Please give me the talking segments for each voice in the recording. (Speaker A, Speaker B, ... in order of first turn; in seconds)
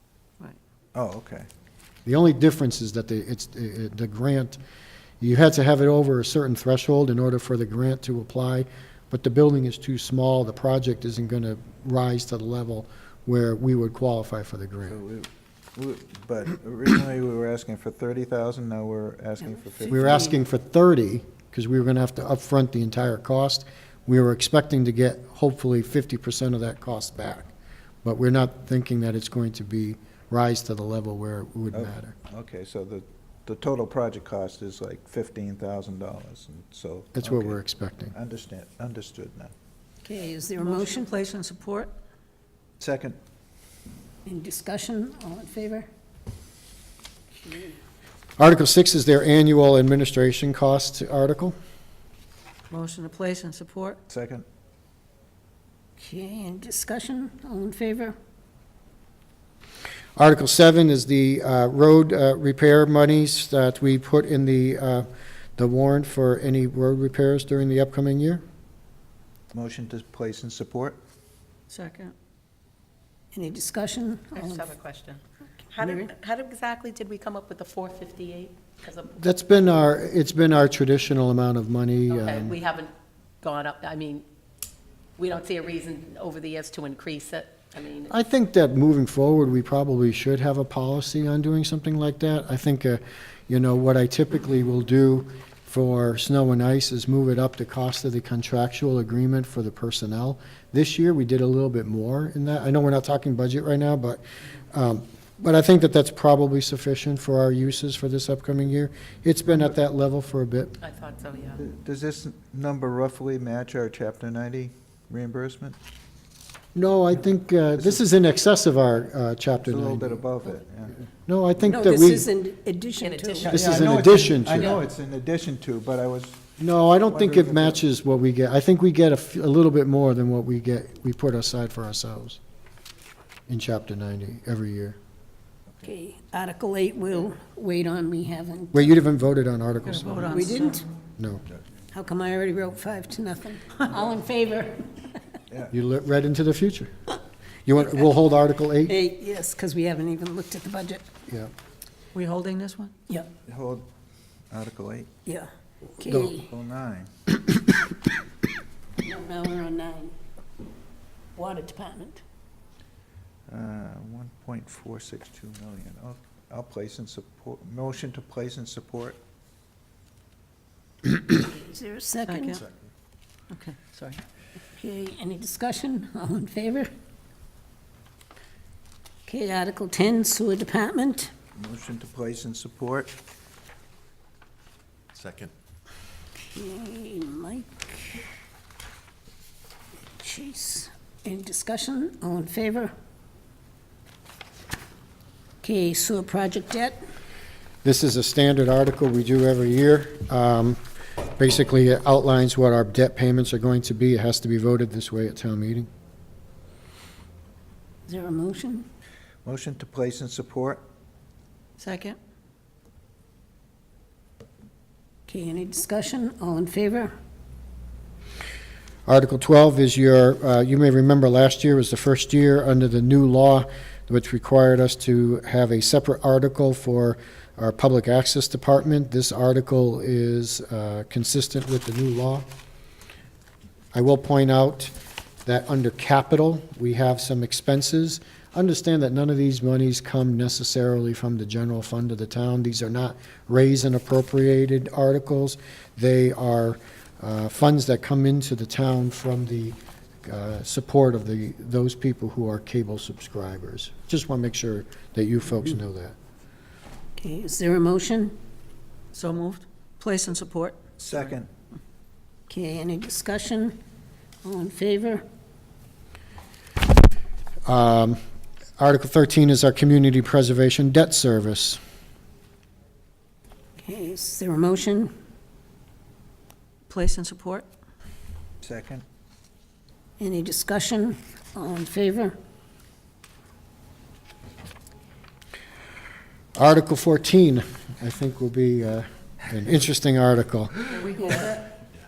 Speaker A: 0.9-1.5, 14.9-20.3, 31.7-37.6, 38.1-39.5, 42.8-43.2, 54.1-54.5, 69.5-71.0, 111.6-115.8, 119.6-121.0, 123.4-126.5, 127.1-127.8, 153.4-153.9, 154.5-155.1, 156.1-157.1, 163.5-169.2, 181.6-183.2, 209.4-210.8, 261.0-261.5, 278.6-279.1
Speaker B: 2.0-4.6, 5.2-15.0, 19.9-27.5, 28.0-32.1, 37.2-38.1, 48.4-51.5, 60.2-68.4, 79.1-82.6, 88.1-110.8, 116.8-120.2, 121.2-122.3, 123.5-124.8, 126.6-132.4, 133.5-135.0, 138.7-140.6, 141.2-141.4, 145.7-146.9, 147.7-149.0, 151.3-151.5, 197.8-200.8, 201.3-205.9, 219.1-232.5, 233.9-234.9, 235.4-256.2, 267.7-268.2, 268.8-271.8, 286.6-290.9
Speaker C: 19.9-20.3, 40.0-41.1, 44.2-45.9, 47.4-47.8, 56.0-58.2, 73.3-74.7, 75.8-76.1, 121.7-123.5, 135.8-139.0, 140.2-140.8, 141.9-145.1, 148.8-151.1, 155.2-156.5, 159.0-160.1, 161.3-162.2, 171.3-172.6, 174.7-176.9, 179.2-181.3, 186.4-188.2, 190.2-192.9, 195.6-197.0, 208.1-208.9, 215.3-217.1, 257.2-258.4, 262.5-263.8, 264.4-265.2, 273.8-275.1, 280.2-282.4, 291.2-291.5
Speaker D: 40.6-41.9, 52.7-54.0, 71.7-72.1, 139.8-140.8, 152.1-152.9, 172.2-172.6, 173.5-174.2, 211.8-212.2, 259.1-260.8, 276.9-277.7, 291.0-291.7
Speaker E: 74.3-79.1, 82.1-82.9, 83.4-84.2, 85.2-88.1, 110.8-111.6, 123.0-123.7, 291.0-291.6